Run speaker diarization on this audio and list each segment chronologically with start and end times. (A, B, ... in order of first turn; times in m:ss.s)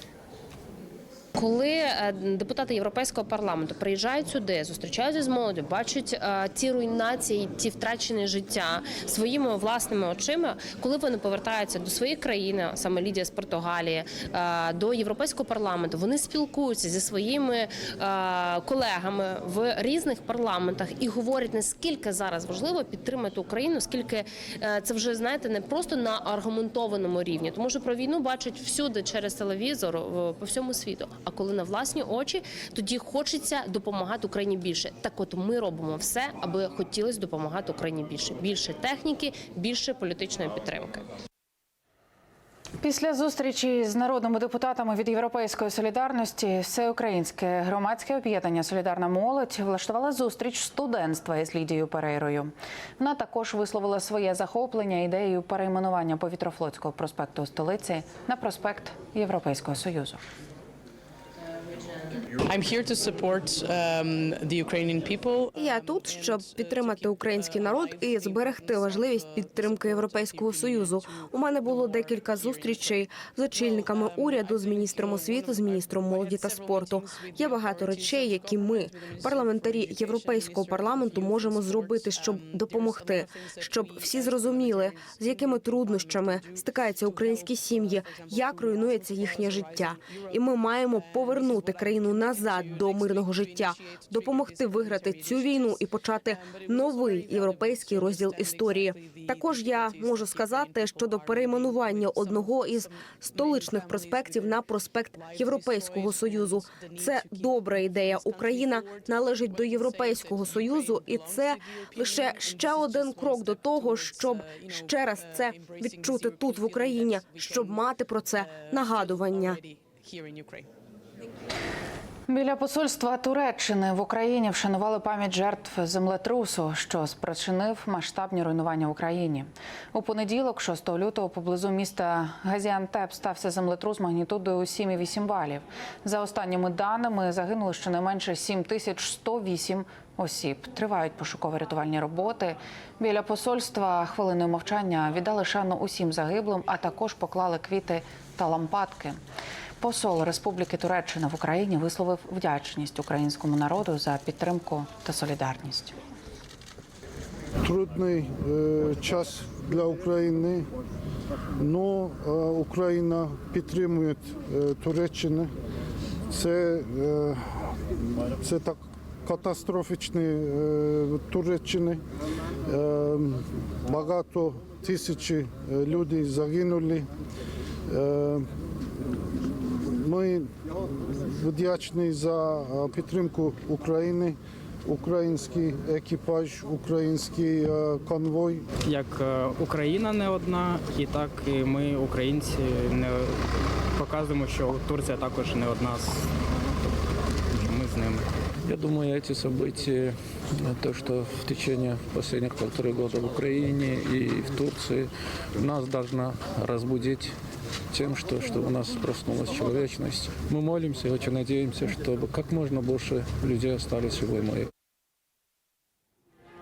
0:01.4-0:41.0 A
0:42.8-1:00.2 B
1:02.4-1:05.5 C
1:05.5-1:59.6 D
2:00.0-2:00.5 C
2:02.3-2:29.2 B
2:29.8-2:36.0 B
2:37.6-2:40.7 E
2:41.6-2:45.5 E
2:46.3-2:47.7 E
2:48.4-2:52.0 E
2:52.7-2:57.1 E
2:57.9-2:58.5 E
3:00.0-3:00.5 E
3:01.1-3:08.6 E
3:08.9-3:13.3 F
3:14.0-3:16.3 F
3:17.6-3:18.3 F
3:18.7-3:27.3 G
3:27.9-3:34.7 G